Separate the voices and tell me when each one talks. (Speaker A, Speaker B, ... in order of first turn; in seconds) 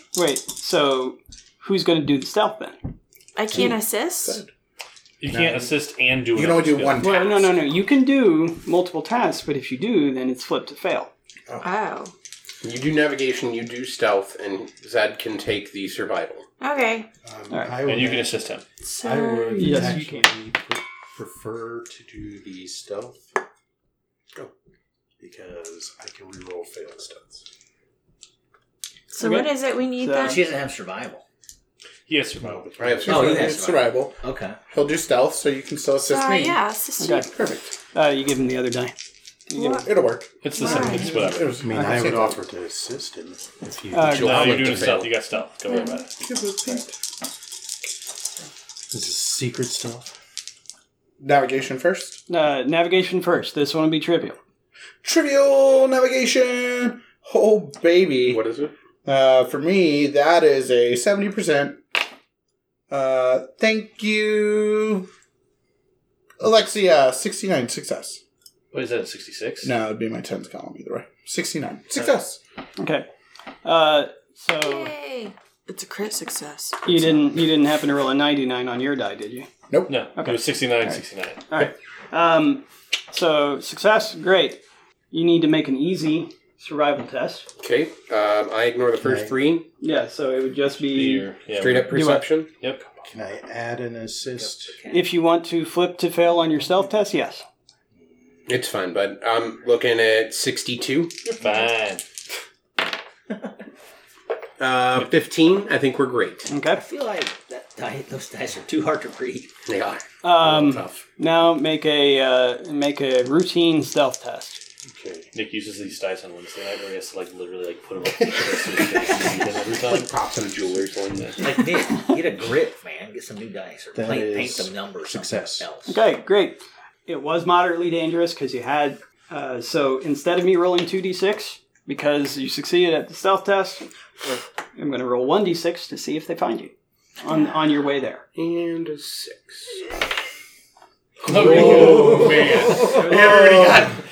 Speaker A: 0.1-2.8, 7.0-11.1, 17.5-17.7, 19.6-20.3, 29.2-30.4, 37.0-37.3, 37.9-39.0, 39.5-39.9, 43.9-44.5, 52.3-54.4, 72.8-73.1, 73.6-74.9, 76.8-79.5, 80.2-84.6, 85.1-87.5, 89.8-91.3, 91.9-92.2, 94.9-97.5, 106.5-106.8, 110.2-114.6, 125.9-133.9, 134.8-138.2, 142.9-143.4
Speaker B: 3.4-4.4, 11.6-12.1, 16.6-17.1, 18.9-20.0, 29.1-30.4, 36.1-37.4, 39.5-39.9, 40.5-41.1, 45.7-46.0, 74.6-76.9
Speaker C: 3.5-4.5, 5.3-5.7, 6.3-7.5, 33.1-36.6, 37.3-37.7, 39.8-42.4, 46.2-46.9, 51.2-52.2, 55.0-58.4, 59.0-61.8, 62.9-65.1, 66.4-68.2, 69.6-72.4, 79.7-80.0, 141.4-143.8
Speaker D: 5.2-7.0, 17.8-18.6, 32.1-32.6, 40.4-41.6, 44.2-46.1, 68.7-69.7, 79.9-81.5, 90.9-92.0, 101.3-102.0, 115.3-120.1, 141.3-142.8
Speaker E: 12.6-16.5, 32.8-33.6, 44.0-45.1, 58.3-58.7, 87.6-89.7, 91.5-92.5, 98.5-101.3, 104.6-106.5, 109.7-111.0, 119.0-121.5, 138.3-139.9, 141.3-144.0
Speaker F: 17.2-23.3, 25.2-27.4, 32.3-33.6, 41.1-45.0, 48.9-50.1, 89.0-89.4, 92.9-94.8, 114.9-115.3, 123.9-125.7
Speaker G: 30.2-31.2, 33.1-34.6, 94.3-95.1, 106.7-109.5, 121.4-126.0